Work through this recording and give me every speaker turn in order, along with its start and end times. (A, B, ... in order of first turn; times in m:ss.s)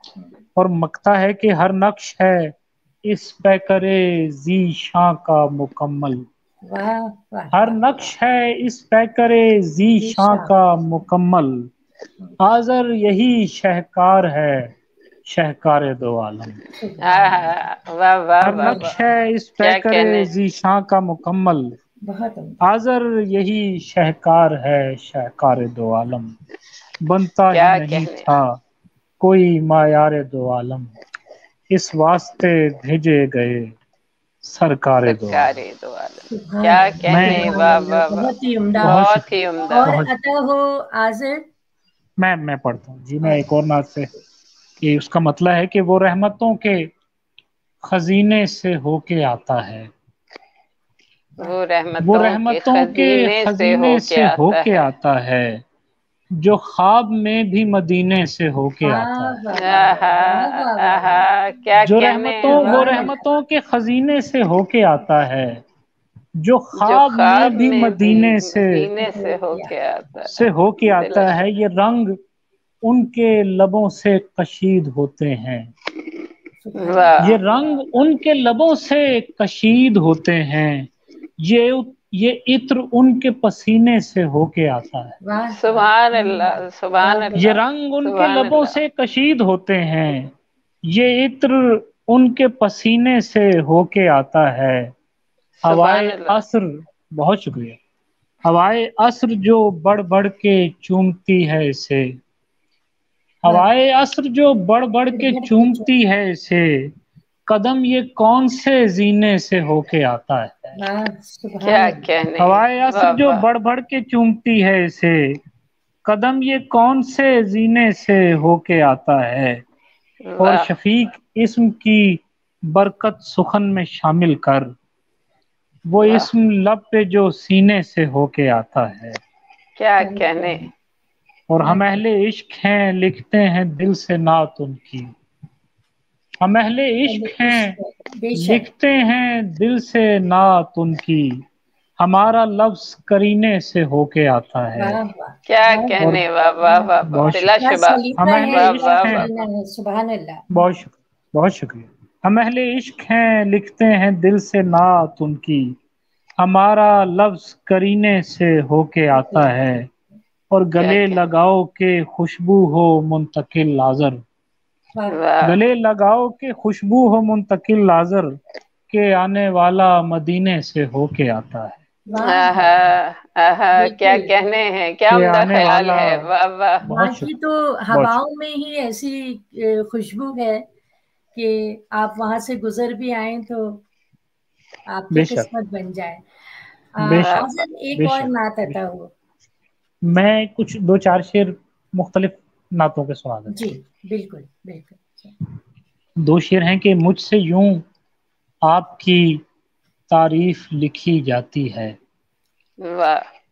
0:00.6-0:02.5 A
0:03.0-0:06.3 A
0:06.6-0:08.0 B
0:07.5-0:11.7 A
0:10.0-0:10.5 B
0:12.4-0:14.7 A
0:15.3-0:16.6 A
0:16.8-0:17.7 B
0:17.0-0:18.9 C
0:18.4-0:21.7 A
0:18.6-0:19.0 B
0:19.6-0:20.3 C
0:22.0-0:22.6 B
0:22.6-0:26.3 A
0:27.0-0:28.6 A
0:27.5-0:28.3 C
0:29.2-0:30.9 A
0:31.7-0:33.8 A
0:34.4-0:35.6 A
0:35.1-0:38.3 C
0:36.3-0:39.0 B
0:37.1-0:37.6 A
0:38.8-0:39.3 A
0:38.8-0:40.0 C
0:39.7-0:41.4 B
0:39.8-0:40.1 A
0:42.2-0:44.1 A
0:44.8-0:46.9 A
0:47.8-0:49.9 A
0:51.4-0:54.8 C
0:52.0-0:55.6 A
0:56.4-0:59.4 A
0:58.8-1:01.3 B
0:59.6-1:03.1 C
1:01.8-1:05.6 A
1:02.4-1:03.2 B
1:06.4-1:08.9 A
1:06.8-1:11.4 C
1:09.0-1:09.7 B
1:10.3-1:12.2 A
1:12.8-1:15.7 A
1:16.6-1:18.1 B
1:16.8-1:17.4 C
1:17.2-1:20.9 A
1:21.4-1:25.2 A
1:25.2-1:27.6 B
1:25.5-1:28.8 C
1:27.4-1:30.3 A
1:30.9-1:34.9 A
1:35.6-1:36.4 C
1:35.6-1:37.8 A
1:38.4-1:42.1 A
1:43.4-1:46.9 A
1:45.1-1:45.9 B
1:47.5-1:50.8 A
1:50.8-1:52.1 B
1:51.6-1:53.4 C
1:52.4-1:55.4 A
1:56.0-1:59.6 A
2:00.2-2:00.7 C
2:00.4-2:04.7 A
2:05.9-2:09.2 A
2:06.0-2:06.3 C
2:09.8-2:10.7 C
2:10.0-2:10.7 B
2:11.5-2:15.1 A
2:11.6-2:12.0 B
2:16.4-2:17.8 A
2:17.0-2:18.7 B
2:18.4-2:21.4 A
2:22.0-2:25.0 A
2:24.8-2:30.6 B
2:25.5-2:29.5 C
2:27.0-2:29.3 A
2:30.5-2:35.8 A
2:36.4-2:39.9 A
2:39.1-2:39.5 B
2:40.5-2:44.2 A
2:40.8-2:41.2 C
2:45.0-2:45.2 B
2:45.1-2:45.6 C
2:45.4-2:48.4 A
2:48.9-2:51.8 A
2:52.1-2:53.0 B
2:52.1-2:56.8 C
2:53.8-2:54.3 B
2:55.1-2:56.3 A
2:56.8-2:57.3 A
2:56.9-3:00.6 B
2:57.9-2:58.2 A
3:01.4-3:03.8 B
3:04.9-3:06.2 B
3:05.1-3:05.5 A
3:07.0-3:09.1 B
3:07.0-3:08.8 A
3:07.1-3:07.5 C
3:10.1-3:13.6 A
3:13.5-3:15.4 B
3:16.2-3:17.8 A
3:18.6-3:19.4 A
3:20.1-3:22.0 A
3:22.8-3:23.3 C